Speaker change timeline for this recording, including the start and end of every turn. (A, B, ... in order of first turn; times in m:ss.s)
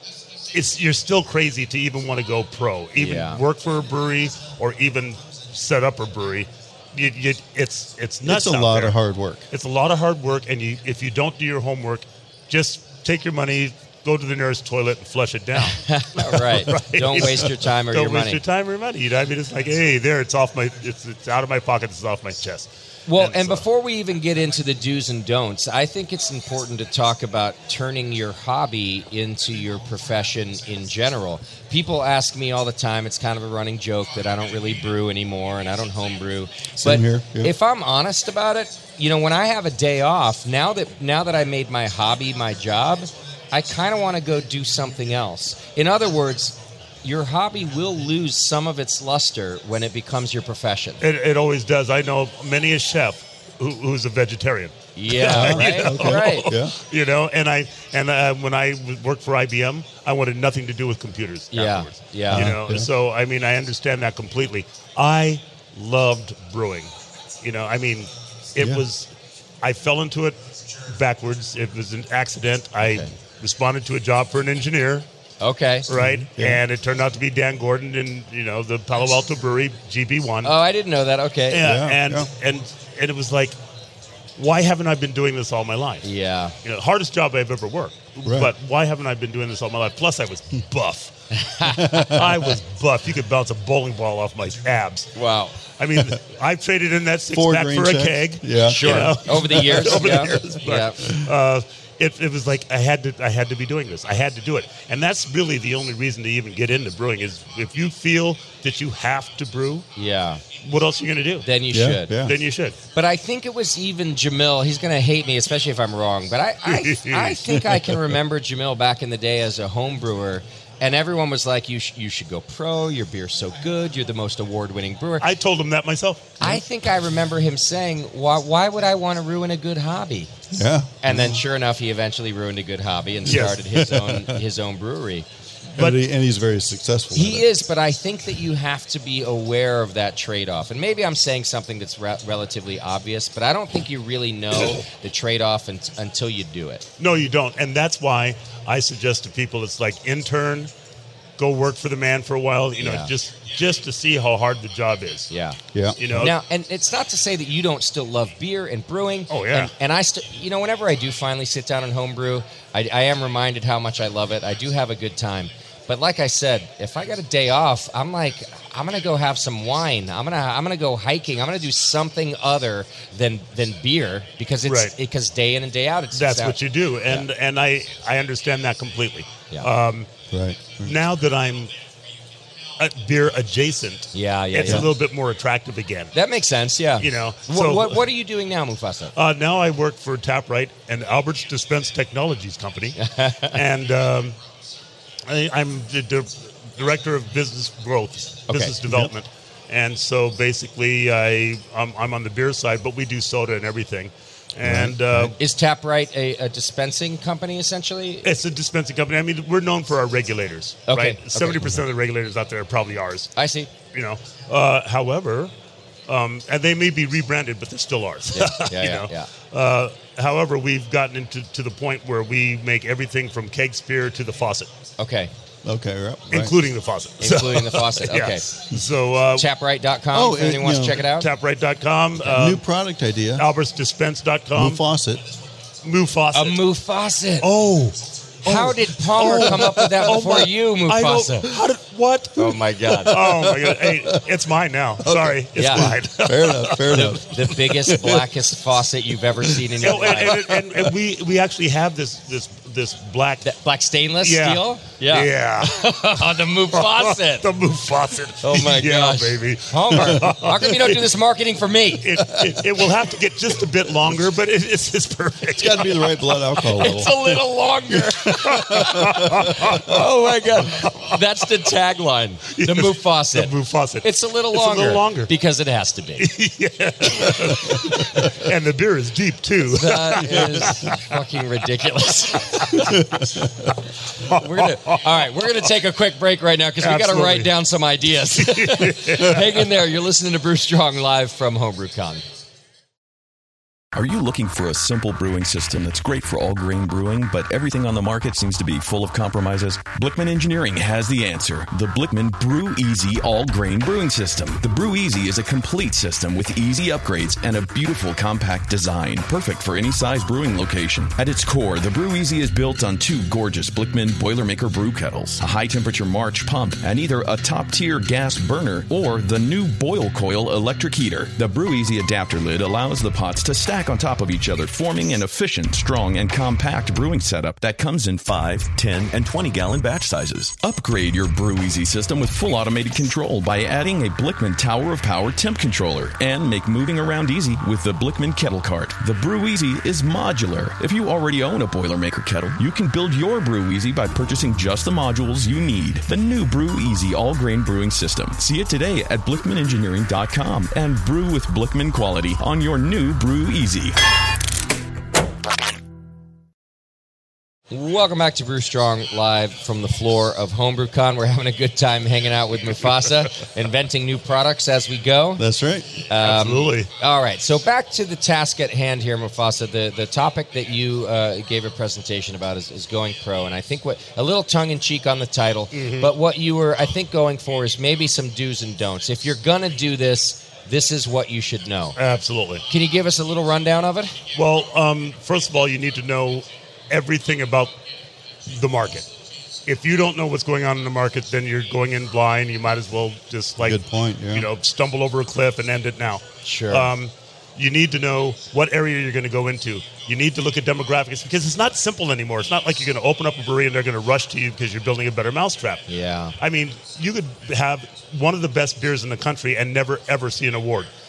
0:00.5-0:08.9 A
0:03.0-0:03.4 B
0:08.2-0:09.4 C
0:09.5-0:23.6 A
0:15.6-0:18.4 B
0:23.1-0:51.0 B
0:36.8-0:37.5 C
0:51.0-1:06.9 A
0:55.0-0:56.5 B
0:55.2-0:56.7 C
1:01.5-1:02.5 B
1:02.3-1:02.9 C
1:07.4-1:09.1 A
1:09.6-1:15.0 A
1:12.8-1:13.1 B
1:15.4-1:15.9 B
1:15.9-1:20.5 A
1:15.9-1:16.6 C
1:20.4-1:21.6 B
1:21.5-1:23.6 A
1:21.6-1:22.3 C
1:24.4-1:26.1 A
1:26.0-1:26.6 B
1:26.6-1:31.1 A
1:28.2-1:28.5 C
1:31.3-1:31.9 B
1:31.6-1:32.6 C
1:31.9-1:35.1 A
1:35.1-1:35.6 B
1:35.8-1:49.9 A
1:37.3-1:40.1 C
1:38.6-1:41.2 B
1:50.0-1:50.4 B
1:50.6-1:51.4 A
1:51.4-1:52.1 B
1:51.7-1:52.3 C
1:52.2-1:52.8 A
1:52.9-2:05.3 B
1:56.7-1:58.0 A
2:05.2-2:06.6 A
2:06.4-2:10.3 B
2:10.5-2:11.4 C
2:11.0-2:15.2 B
2:13.2-2:14.4 C
2:13.3-2:13.6 A
2:15.7-2:16.0 A
2:15.8-2:17.4 C
2:17.1-2:26.9 B
2:27.0-2:30.7 A
2:31.4-2:35.3 A
2:32.8-2:33.1 B
2:35.3-2:35.6 B
2:35.7-2:36.3 C
2:36.0-2:36.3 A
2:36.1-2:57.3 B
2:39.3-2:39.7 A
2:54.7-2:54.9 A
2:56.1-3:00.1 A
3:00.3-3:00.9 C
3:00.8-3:01.7 A
3:02.8-3:06.1 A
3:04.1-3:04.9 B
3:06.1-3:09.1 B
3:07.0-3:08.0 A
3:09.2-3:14.4 A
3:13.0-3:13.6 B
3:15.3-3:25.3 A
3:18.5-3:18.7 B
3:18.8-3:19.1 C
3:24.6-3:25.3 C
3:25.4-3:28.4 B
3:28.2-3:33.3 A
3:30.9-3:31.8 B
3:33.4-3:33.7 B
3:33.9-3:35.5 A
3:36.1-3:44.7 A
3:38.3-3:39.3 B
3:45.0-3:45.3 B
3:45.6-3:46.5 C
3:46.3-3:49.5 A
3:47.2-3:48.6 B
3:49.3-3:51.3 B
3:50.1-3:51.0 C
3:51.1-3:52.6 A
3:52.2-3:53.4 C
3:53.4-3:54.8 A
3:54.5-3:55.2 C
3:55.8-3:56.6 A
3:56.3-3:57.5 B
3:57.4-4:07.2 A
3:58.4-4:01.5 B
3:59.2-4:00.1 C
4:02.4-4:03.2 B
4:02.8-4:04.2 C
4:05.0-4:08.4 C
4:05.6-4:06.0 B
4:06.9-4:10.4 B
4:09.4-4:09.8 C
4:09.8-4:13.4 A
4:10.5-4:10.9 C
4:13.4-4:17.5 B
4:14.2-4:21.0 A
4:18.4-4:22.1 B
4:22.0-4:26.1 A
4:22.2-4:23.0 C
4:25.6-4:27.3 C
4:26.7-4:36.3 B
4:28.4-4:29.8 C
4:28.6-4:29.9 A
4:30.7-4:31.2 A
4:32.5-4:35.3 A
4:36.2-4:41.0 A
4:39.7-4:43.3 B
4:42.9-4:43.7 C
4:44.2-4:52.2 B
4:46.8-4:47.5 A
4:48.3-4:49.7 A
4:53.9-5:54.0 D
5:57.7-6:05.5 B
6:05.4-6:06.0 C
6:06.1-6:22.0 B
6:06.1-6:06.9 A
6:15.7-6:16.1 A
6:22.0-6:22.6 A
6:22.7-6:24.2 B
6:24.3-6:27.7 A
6:28.4-6:29.1 A
6:29.6-6:33.8 A
6:33.6-6:34.5 C
6:34.3-6:45.9 A
6:36.4-6:36.9 B
6:45.9-6:46.4 B
6:46.4-6:50.9 A